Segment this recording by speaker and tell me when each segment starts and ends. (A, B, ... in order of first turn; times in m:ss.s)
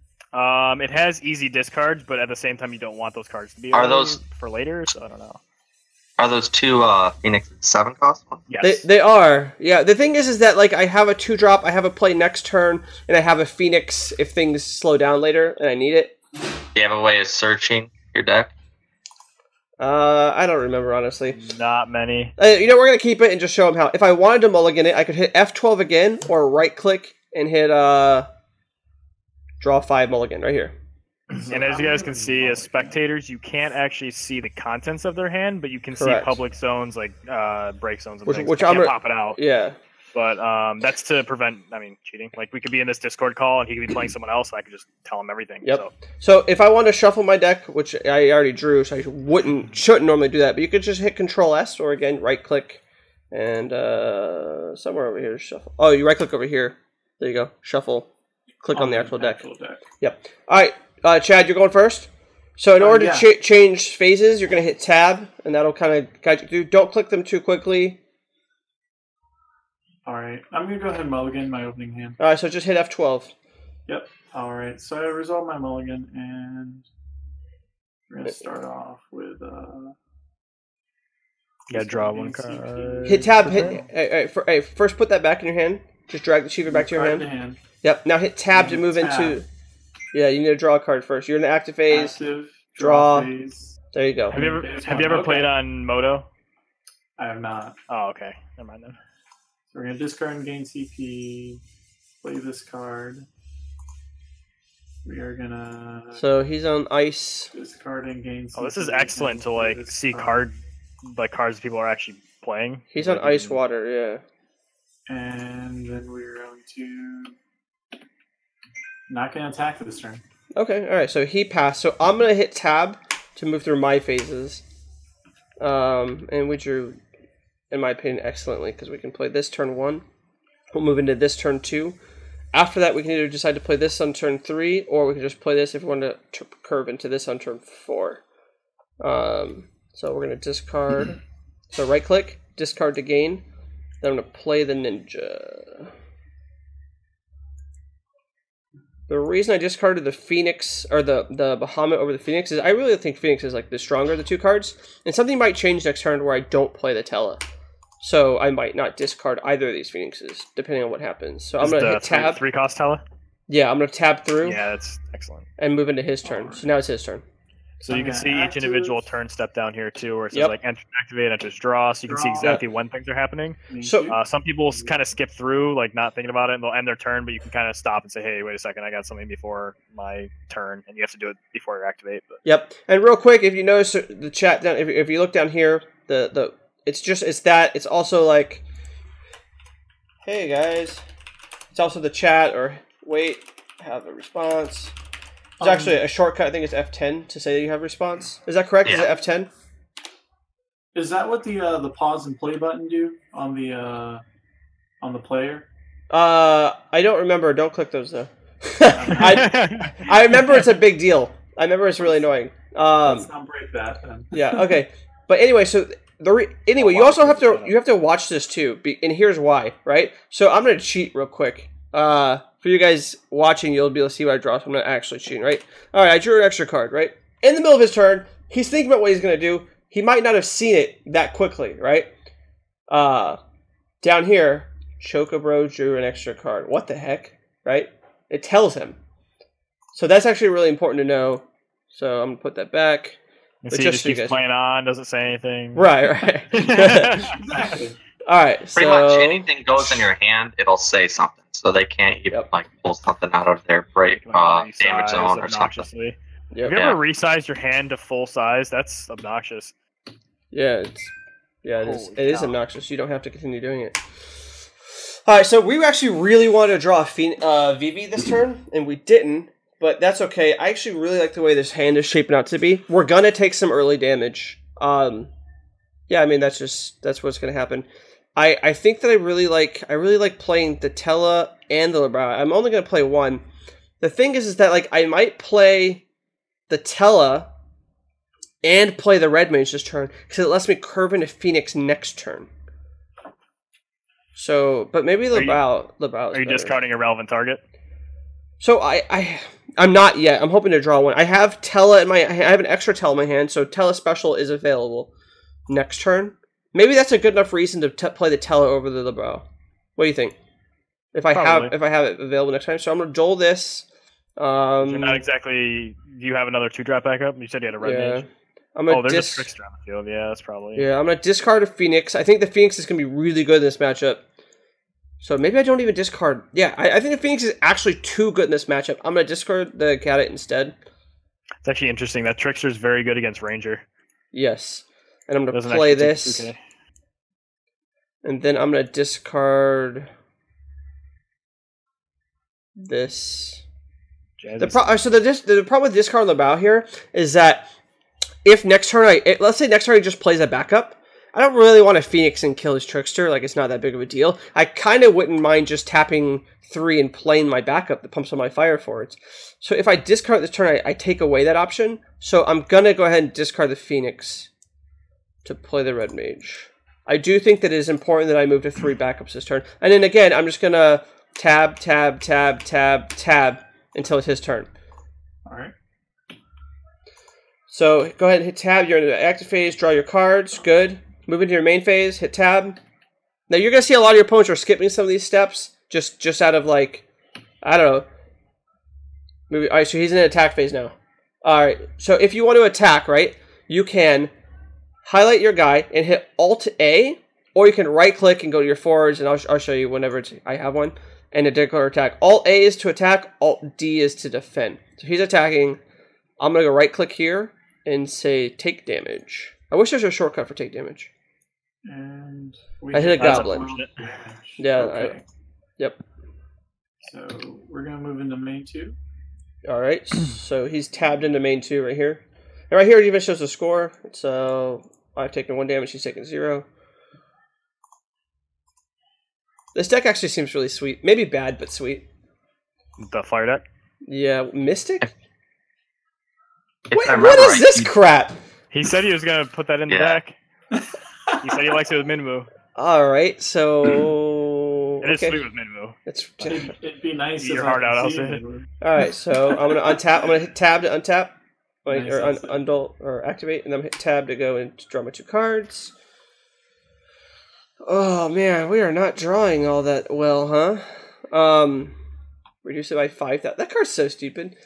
0:00.3-0:05.4 A
0:03.7-0:04.2 B
0:06.2-0:08.4 B
0:08.5-0:08.8 A
0:08.6-0:16.2 C
0:16.7-0:18.5 B
0:19.8-0:21.4 C
0:21.3-0:22.3 A
0:22.4-0:28.3 C
0:29.6-0:30.7 C
0:31.3-0:32.9 D
0:31.4-0:39.4 A
0:36.0-0:36.4 C
0:38.2-0:39.8 C
0:40.1-0:45.9 A
0:45.6-0:58.1 C
0:58.6-0:59.4 C
0:58.7-0:59.8 D
1:00.0-1:08.0 C
1:02.8-1:03.3 D
1:10.0-1:12.2 D
1:12.2-1:13.3 C
1:13.9-1:16.8 D
1:18.1-1:19.9 D
1:21.7-1:23.7 A
1:21.7-1:23.9 D
1:23.0-1:27.3 C
1:26.7-1:27.6 D
1:27.8-1:29.5 C
1:28.5-1:29.4 D
1:30.1-1:32.2 C
1:31.9-1:33.8 D
1:32.8-1:33.3 C
1:33.9-1:34.4 C
1:34.3-1:35.5 D
1:34.3-1:36.3 A
1:37.2-1:37.8 D
1:37.9-1:39.0 A
1:39.7-1:41.6 D
1:42.2-1:43.3 D
1:45.0-1:46.3 D
1:46.2-1:47.5 C
1:47.5-1:50.5 D
1:48.6-1:53.6 A
1:52.9-1:54.2 C
1:55.1-1:57.3 D
1:59.1-2:00.2 D
2:00.6-2:04.6 C
2:05.6-2:07.0 C
2:07.7-2:10.0 C
2:10.7-2:12.0 C
2:12.5-2:18.2 C
2:19.0-2:21.2 C
2:21.7-2:23.4 C
2:24.0-2:25.9 C
2:29.1-2:37.4 C
2:38.0-2:42.4 C
2:41.6-2:43.0 A
2:43.5-2:44.6 C
2:44.4-2:45.5 A
2:45.6-2:47.2 C
2:46.2-2:46.7 D
2:47.8-2:49.0 D
2:47.8-3:02.4 A
2:52.1-2:52.6 D
2:53.7-2:54.2 D
2:53.8-2:54.1 C
3:02.4-3:08.6 C
3:10.2-3:11.0 C
3:11.7-3:14.9 C
3:15.6-3:16.0 D
3:15.6-3:19.5 C
3:20.9-3:24.2 D
3:25.0-3:25.7 D
3:26.1-3:33.3 C
3:28.9-3:29.4 D
3:29.2-3:30.0 A
3:33.0-3:34.6 D
3:34.3-3:52.1 C
3:36.8-3:37.7 A
3:52.9-3:53.4 C
3:54.0-3:59.0 C
3:59.9-4:03.2 C
4:03.6-4:05.9 A
4:03.7-4:04.4 C
4:05.8-4:07.3 C
4:06.5-4:07.7 A
4:07.4-4:08.0 D
4:08.2-4:10.1 C
4:08.7-4:15.8 B
4:14.2-4:19.7 A
4:16.7-4:17.0 B
4:20.5-4:21.1 C
4:21.6-4:24.4 C
4:21.8-4:22.6 A
4:25.2-4:35.3 C
4:36.1-4:43.4 C
4:44.0-4:46.0 C
4:46.7-4:47.5 C
4:48.6-4:52.5 C
4:54.3-4:56.8 C
4:55.3-4:55.6 A
4:56.3-4:57.6 A
4:58.6-5:05.1 C
5:05.7-5:10.4 C
5:11.1-5:15.2 C
5:11.3-5:11.7 A
5:14.8-5:18.2 A
5:17.8-5:19.5 C
5:18.9-5:20.9 A
5:20.7-5:24.2 C
5:25.2-5:30.8 C
5:31.6-5:33.8 A
5:34.3-5:36.5 C
5:35.5-5:36.6 A
5:38.2-5:40.1 C
5:42.8-5:43.6 C
5:44.4-5:44.9 A
5:44.6-5:47.7 C
5:48.4-6:04.5 C
6:05.4-6:14.7 C
6:15.4-6:15.7 D
6:17.7-6:22.8 C
6:23.5-6:27.0 C
6:27.6-6:28.1 C
6:29.5-6:34.3 C
6:35.0-6:45.8 C
6:46.4-6:51.1 C
6:51.8-6:55.2 D
6:52.9-6:53.6 C
6:53.2-6:53.9 A
6:54.6-6:55.2 C
6:57.0-6:59.0 D
6:59.6-7:06.6 C
7:09.7-7:12.1 C
7:13.0-7:13.6 A
7:14.0-7:15.0 C
7:16.9-7:17.9 B
7:16.9-7:18.4 C
7:18.7-7:20.4 A
7:19.9-7:20.2 B
7:20.7-7:21.5 D
7:21.4-7:22.5 A
7:22.8-7:25.4 C
7:25.0-7:26.5 A
7:26.0-7:26.7 C
7:26.4-7:28.7 D
7:27.4-7:28.4 A
7:28.8-7:35.9 C
7:31.9-7:32.6 D
7:37.8-7:42.0 C
7:42.6-7:44.5 C